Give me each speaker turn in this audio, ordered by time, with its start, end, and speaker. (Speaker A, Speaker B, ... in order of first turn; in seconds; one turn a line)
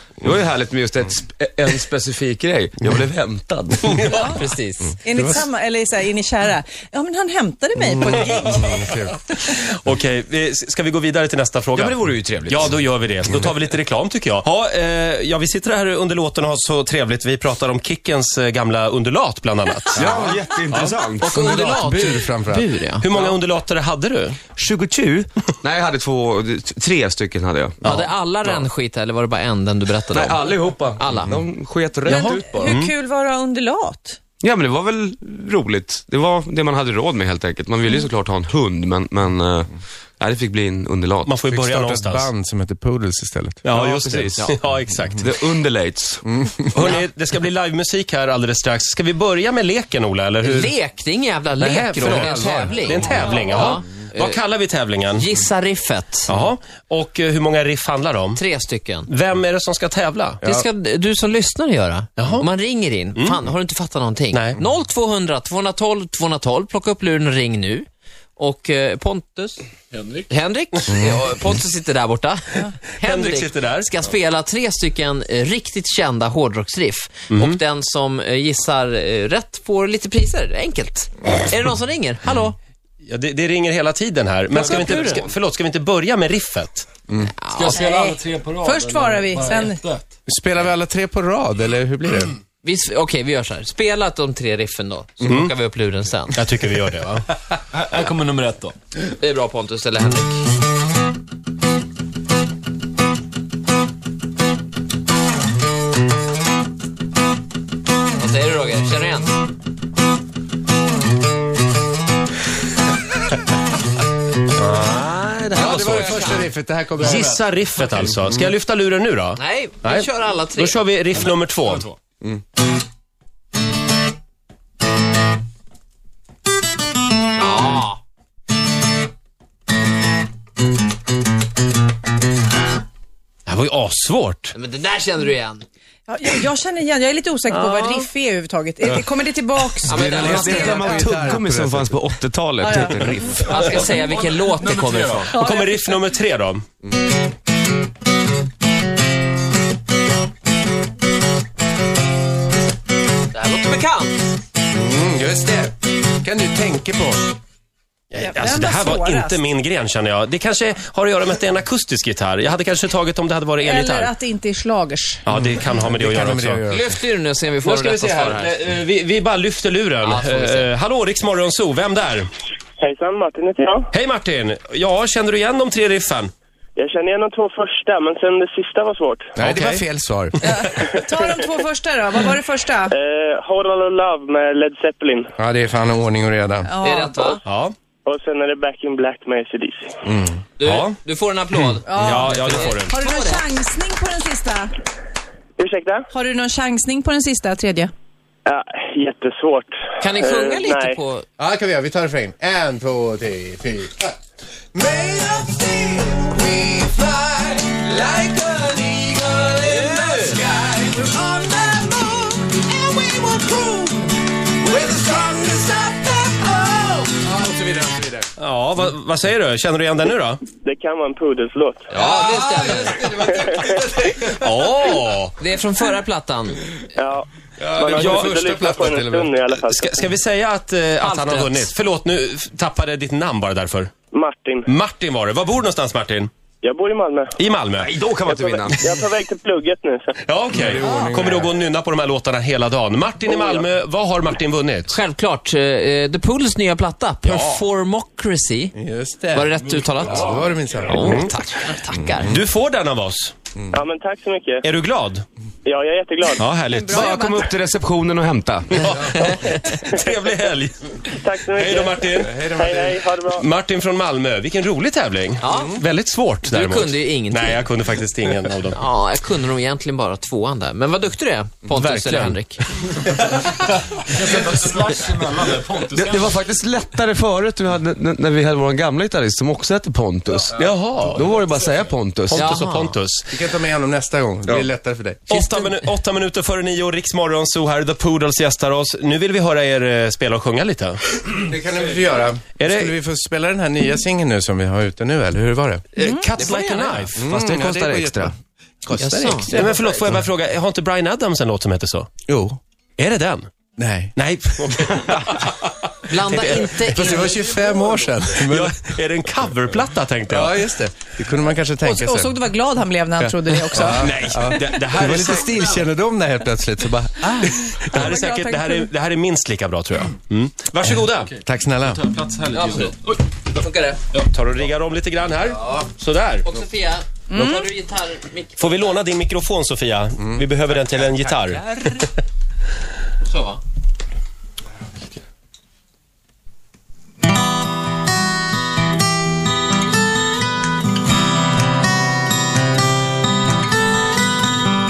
Speaker A: 0.2-4.1
Speaker B: 4.0-4.4
Speaker C: 4.3-5.0
Speaker B: 5.0-8.9
Speaker D: 5.1-5.4
Speaker D: 8.4-9.2
Speaker E: 9.4-21.0
Speaker A: 11.8-12.7
Speaker A: 19.9-21.7
Speaker D: 20.0-20.4
Speaker C: 21.2-23.3
Speaker D: 21.3-22.7
Speaker E: 23.0-24.4
Speaker A: 24.6-27.8
Speaker E: 27.8-28.6
Speaker C: 27.9-30.4
Speaker A: 30.1-32.8
Speaker C: 31.0-31.4
Speaker B: 32.1-34.2
Speaker E: 32.1-32.9
Speaker A: 34.4-41.4
Speaker E: 41.2-42.3
Speaker D: 41.5-43.6
Speaker E: 43.6-45.3
Speaker A: 43.7-44.5
Speaker D: 44.9-45.2
Speaker A: 45.2-46.3
Speaker D: 46.2-46.9
Speaker E: 46.7-50.8
Speaker C: 50.4-54.4
Speaker E: 51.6-55.3
Speaker D: 52.0-53.2
Speaker C: 55.1-56.3
Speaker E: 56.3-58.4
Speaker C: 58.4-59.1
Speaker E: 59.1-60.4
Speaker C: 60.4-69.6
Speaker E: 62.2-62.5
Speaker E: 64.3-64.6
Speaker C: 70.3-82.5
Speaker E: 73.0-73.9
Speaker E: 77.3-77.6
Speaker E: 83.0-86.9
Speaker C: 84.5-85.3
Speaker A: 84.7-85.2
Speaker C: 87.4-87.8
Speaker F: 87.7-88.7
Speaker B: 87.7-89.8
Speaker D: 90.3-92.3
Speaker C: 92.6-96.4
Speaker E: 95.2-95.5
Speaker E: 96.3-97.3
Speaker F: 98.1-98.7
Speaker C: 99.1-100.4
Speaker C: 108.2-109.4
Speaker E: 114.5-121.9
Speaker C: 115.5-116.4
Speaker D: 115.5-117.4
Speaker C: 119.4-120.8
Speaker C: 127.4-128.0
Speaker E: 133.5-134.5
Speaker C: 134.5-135.7
Speaker B: 136.1-141.2
Speaker C: 139.9-141.0
Speaker D: 139.9-142.0
Speaker A: 140.0-143.6
Speaker B: 142.6-143.1
Speaker C: 143.4-145.3
Speaker E: 143.5-144.0
Speaker B: 145.3-146.0
Speaker E: 145.3-146.6
Speaker C: 153.3-154.2
Speaker D: 154.7-157.3
Speaker E: 158.1-164.1
Speaker B: 158.2-159.4
Speaker B: 163.6-165.2
Speaker E: 165.2-166.6
Speaker D: 165.3-167.0
Speaker C: 166.7-168.5
Speaker E: 167.6-172.3
Speaker C: 170.0-170.7
Speaker G: 172.8-173.9
Speaker E: 173.9-176.3
Speaker G: 176.8-179.3
Speaker E: 179.4-179.8
Speaker D: 179.4-180.5
Speaker B: 180.4-183.0
Speaker G: 180.9-181.3
Speaker G: 182.9-185.3
Speaker D: 185.4-186.7
Speaker B: 186.7-187.4
Speaker C: 186.8-187.4
Speaker E: 187.4-187.7
Speaker G: 188.1-189.9
Speaker D: 190.1-190.4
Speaker C: 190.6-193.4
Speaker E: 190.6-191.0
Speaker B: 191.9-194.8
Speaker E: 191.9-193.0
Speaker G: 195.6-196.0
Speaker B: 196.1-197.9
Speaker G: 198.5-201.0
Speaker C: 200.0-201.3
Speaker D: 201.4-204.1
Speaker D: 204.7-218.3
Speaker C: 209.6-210.4
Speaker E: 218.4-220.4
Speaker G: 220.6-221.9
Speaker C: 221.9-223.1
Speaker D: 222.0-224.9
Speaker G: 223.3-223.7
Speaker E: 224.4-225.3
Speaker C: 225.4-226.8
Speaker G: 227.0-230.1
Speaker D: 227.6-229.3
Speaker E: 227.9-228.3
Speaker E: 229.6-233.9
Speaker C: 231.0-231.7
Speaker G: 234.1-234.7
Speaker E: 234.7-236.3
Speaker G: 236.6-237.3
Speaker E: 237.4-237.9
Speaker A: 237.8-239.1
Speaker G: 238.2-240.2
Speaker E: 240.2-244.9
Speaker D: 240.5-241.5
Speaker G: 243.3-243.7
Speaker C: 244.9-248.7
Speaker E: 247.2-247.6
Speaker D: 248.8-251.3
Speaker C: 249.3-252.3
Speaker E: 251.0-251.3
Speaker E: 252.2-253.3
Speaker G: 253.7-254.7
Speaker E: 254.6-255.2
Speaker G: 255.7-256.4
Speaker E: 256.4-257.1
Speaker B: 256.7-257.5
Speaker A: 256.8-259.0
Speaker E: 258.8-262.5
Speaker G: 261.2-263.5
Speaker D: 262.2-263.0
Speaker E: 263.3-268.8
Speaker C: 265.4-265.8
Speaker C: 266.5-267.6
Speaker C: 268.7-272.6
Speaker E: 271.7-273.6
Speaker F: 274.2-276.3
Speaker A: 275.4-282.5
Speaker E: 280.6-281.2
Speaker E: 282.3-283.3
Speaker C: 282.3-283.0
Speaker D: 283.3-285.3
Speaker E: 285.3-291.0
Speaker D: 291.3-295.9
Speaker E: 292.6-293.0
Speaker E: 295.9-297.2
Speaker B: 296.0-296.3
Speaker C: 296.4-297.0
Speaker D: 297.2-299.6
Speaker A: 297.2-298.3
Speaker C: 299.0-300.1
Speaker E: 299.5-302.1
Speaker D: 302.3-302.6
Speaker E: 303.0-303.5
Speaker D: 303.8-304.1
Speaker E: 304.1-307.2
Speaker C: 306.1-307.4
Speaker D: 306.9-308.8
Speaker E: 308.4-310.6
Speaker D: 310.3-312.4
Speaker B: 311.8-314.7
Speaker D: 313.2-317.6
Speaker E: 313.8-315.8
Speaker B: 317.4-318.9
Speaker E: 317.6-321.4
Speaker D: 321.4-322.1
Speaker C: 322.5-324.0
Speaker E: 324.1-326.5
Speaker C: 326.4-329.0
Speaker B: 327.3-327.7
Speaker E: 328.6-332.1
Speaker C: 333.2-333.6